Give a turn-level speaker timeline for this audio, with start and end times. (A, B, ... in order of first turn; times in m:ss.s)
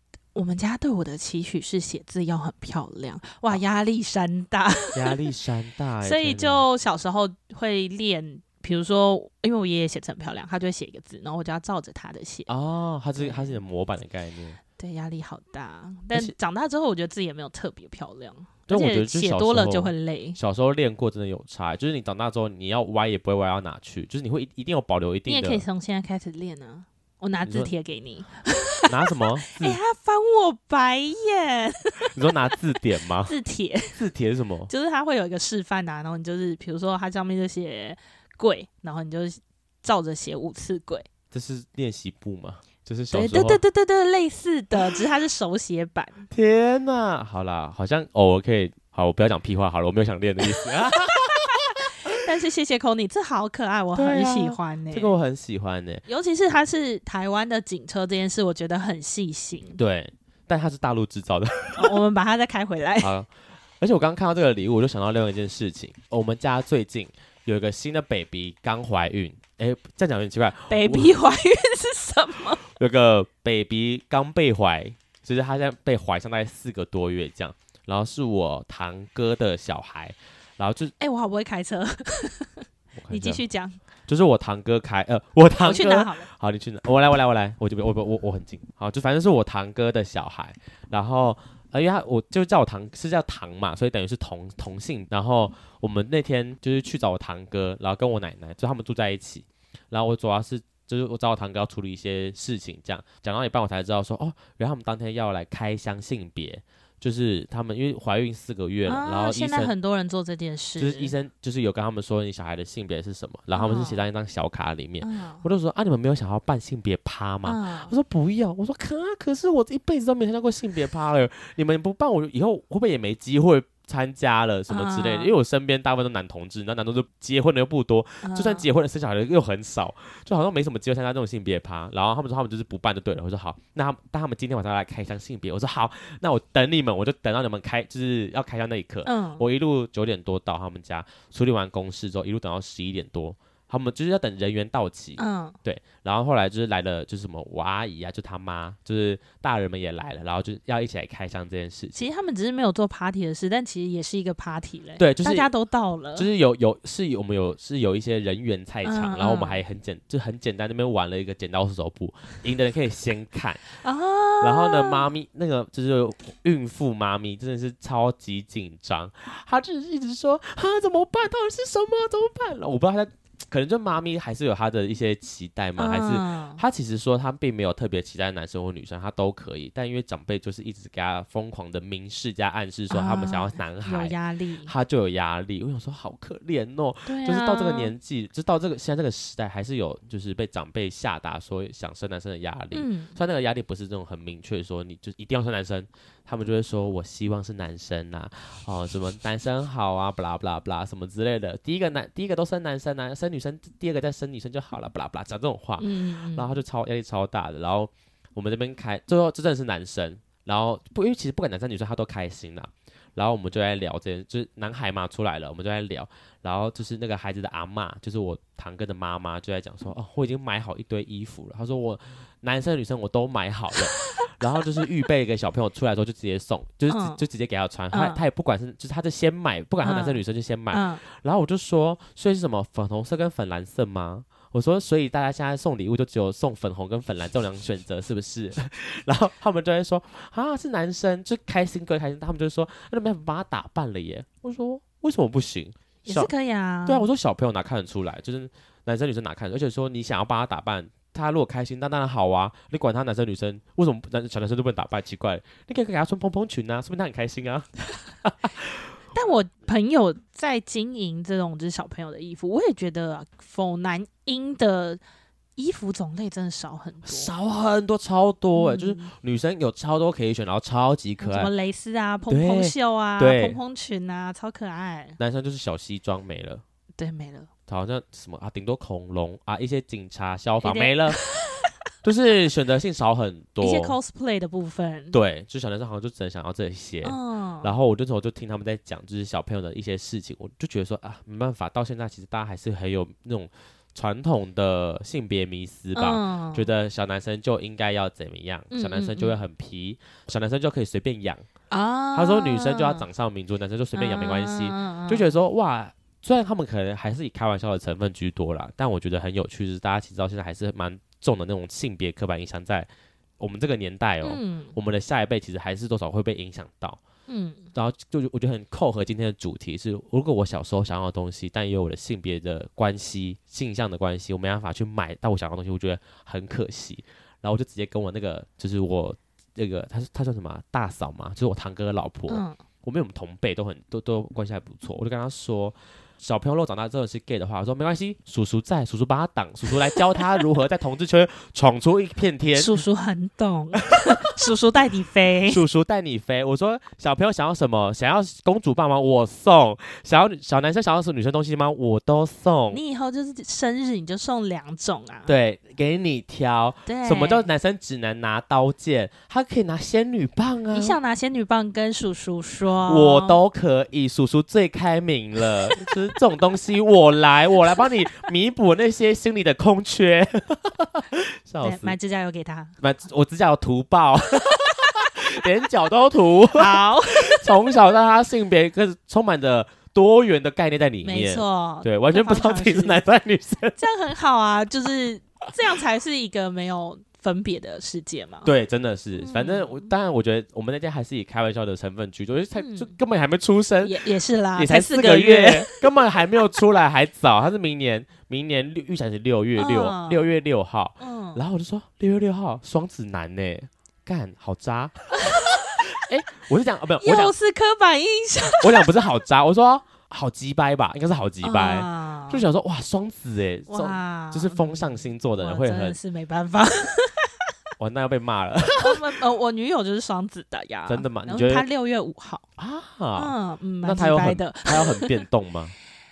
0:00.4-0:05.2 A
0:04.9-0:06.6 B
0:06.0-0:12.5 A
0:12.5-0:14.6 B
0:13.2-0:13.6 A
0:14.8-0:20.4 A
0:18.7-0:25.6 B
0:25.3-0:32.3 A
0:27.4-0:27.7 B
0:28.9-0:29.8 B
0:32.0-0:33.3 B
0:33.2-0:34.0 A
0:33.9-0:34.7 B
0:34.7-0:41.1 A
0:41.3-0:43.6 B
0:43.1-0:46.2 A
0:46.3-0:52.2 B
0:50.6-0:55.1 A
0:54.0-0:56.0 B
0:56.1-0:59.8 A
0:59.8-1:02.0 B
1:01.8-1:03.1 A
1:03.0-1:11.2 B
1:10.7-1:12.6 A
1:12.6-1:20.9 B
1:21.0-1:23.8 A
1:23.0-1:23.4 B
1:24.1-1:49.7 B
1:25.6-1:26.3 A
1:48.9-1:51.2 A
1:50.8-2:32.1 B
1:53.5-1:54.0 A
1:55.0-1:55.4 A
1:57.4-1:57.9 A
2:04.7-2:05.3 A
2:08.2-2:08.7 A
2:19.0-2:19.5 A
2:25.2-2:25.6 A
2:32.0-2:36.3 A
2:35.0-2:35.5 B
2:36.2-2:43.6 B
2:38.8-2:39.6 A
2:43.8-2:45.1 A
2:44.4-4:06.3 B
2:55.8-2:56.6 A
3:02.9-3:04.7 A
3:07.1-3:07.9 A
3:12.7-3:13.2 A
3:25.8-3:26.6 A
3:46.9-3:47.2 A
3:47.9-3:48.2 A
3:49.8-3:51.0 A
4:06.0-4:07.1 A
4:06.9-4:18.9 B
4:19.1-4:25.0 A
4:25.6-4:27.3 A
4:27.0-4:31.5 B
4:28.6-4:29.1 A
4:31.2-4:35.2 A
4:32.3-4:33.6 B
4:35.2-4:36.6 B
4:37.0-4:37.5 A
4:37.7-4:41.2 B
4:40.6-4:41.7 A
4:42.0-4:44.0 B
4:43.6-4:45.2 A
4:45.1-5:01.4 B
4:47.0-4:47.7 A
4:56.0-4:56.7 A
4:58.7-4:59.4 A
5:01.7-5:03.1 A
5:02.1-5:17.0 B
5:03.9-5:05.3 A
5:14.2-5:14.8 A
5:17.3-5:17.7 A
5:17.8-5:42.8 B
5:32.3-5:32.6 A
5:42.5-5:45.6 A
5:43.9-5:44.3 B
5:45.5-5:52.8 B
5:52.7-5:55.3 A
5:55.3-6:01.0 B
5:56.9-5:57.5 A
6:00.7-6:03.4 A
6:02.9-6:12.0 B
6:11.6-6:12.7 A
6:12.8-6:23.8 B
6:16.5-6:17.5 A
6:21.0-6:23.0 A
6:23.8-6:28.5 A
6:28.4-6:47.3 B
6:29.2-6:29.9 A
6:32.6-6:33.0 A
6:33.8-6:35.9 A
6:39.6-6:40.3 A
6:41.0-6:41.4 A
6:45.2-6:45.6 A
6:47.0-6:48.9 A
6:48.6-6:56.0 B
6:51.4-6:52.4 A
6:53.7-6:57.3 A
6:57.8-6:59.1 B
6:58.8-7:02.4 A
7:00.9-7:01.7 B
7:02.6-7:05.7 B
7:03.2-7:05.1 A